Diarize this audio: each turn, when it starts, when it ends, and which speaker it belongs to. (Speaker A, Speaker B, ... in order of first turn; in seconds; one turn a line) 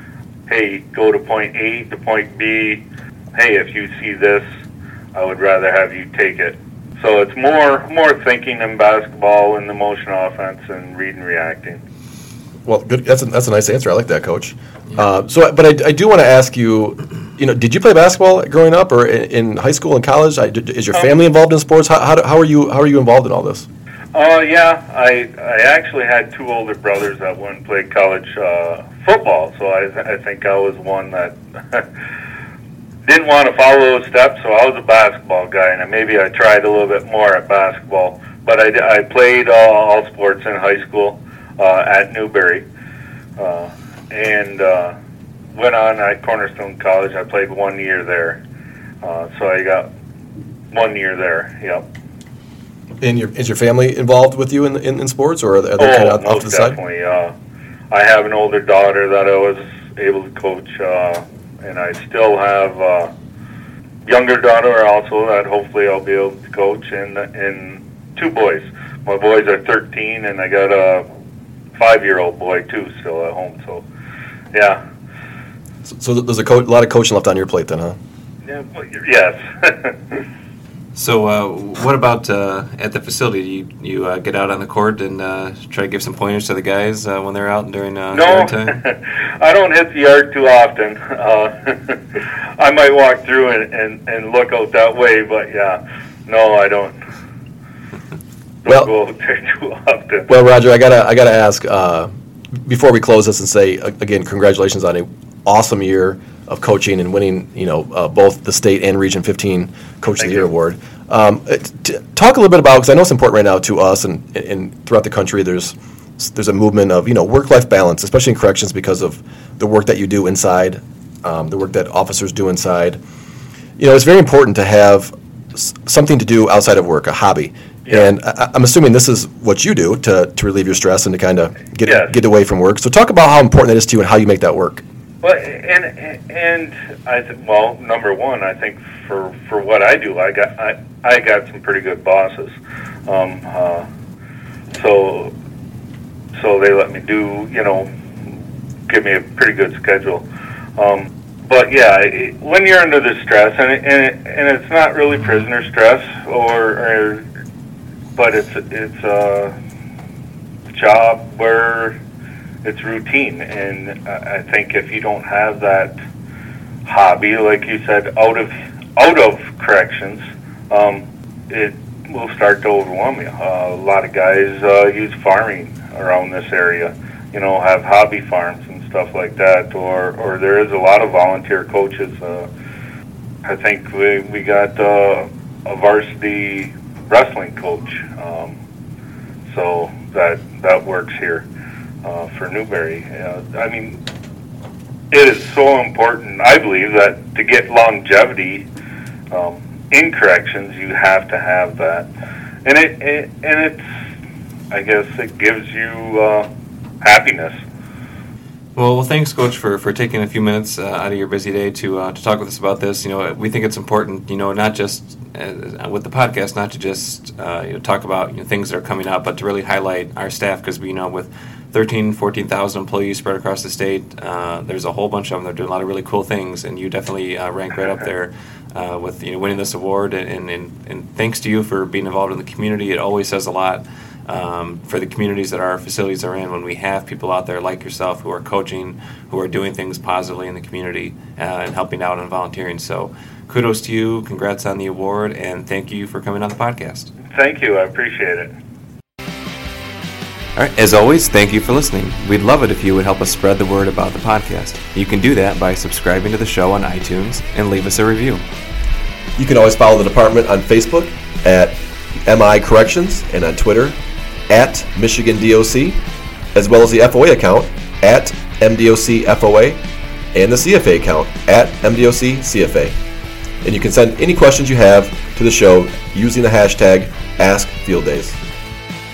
Speaker A: 0.5-2.8
Speaker A: 3.3-4.4
Speaker A: 5.1-11.8
Speaker B: 12.7-23.7
Speaker A: 24.1-31.9
Speaker A: 33.0-42.6
Speaker A: 43.4-44.9
Speaker A: 45.5-48.4
Speaker A: 49.0-49.9
Speaker A: 50.7-51.9
Speaker B: 53.0-56.8
Speaker A: 55.8-57.3
Speaker A: 57.9-63.1
Speaker A: 64.0-71.0
Speaker A: 71.8-73.8
Speaker A: 74.5-74.8
Speaker B: 75.8-78.0
Speaker A: 78.5-80.2
Speaker C: 81.0-88.8
Speaker A: 88.1-97.0
Speaker A: 98.7-100.3
Speaker B: 100.3-102.1
Speaker B: 102.7-123.0
Speaker A: 110.2-110.5
Speaker B: 123.8-134.8
Speaker A: 127.9-128.1
Speaker A: 131.9-132.1
Speaker A: 135.2-142.5
Speaker A: 143.1-143.8
Speaker A: 144.7-145.3
Speaker A: 146.4-147.9
Speaker A: 148.9-157.2
Speaker A: 158.2-159.5
Speaker A: 160.7-162.0
Speaker A: 162.6-166.0
Speaker A: 166.8-182.5
Speaker A: 183.4-188.6
Speaker A: 189.5-191.5
Speaker A: 192.0-194.0
Speaker A: 195.1-198.7
Speaker A: 199.3-202.1
Speaker A: 202.7-203.9
Speaker A: 204.7-206.5
Speaker A: 207.0-207.5
Speaker C: 208.8-247.1
Speaker A: 247.3-248.5
Speaker C: 250.6-258.4
Speaker B: 259.4-264.0
Speaker B: 264.5-266.0
Speaker B: 266.5-269.8
Speaker B: 270.3-272.9
Speaker B: 273.6-278.4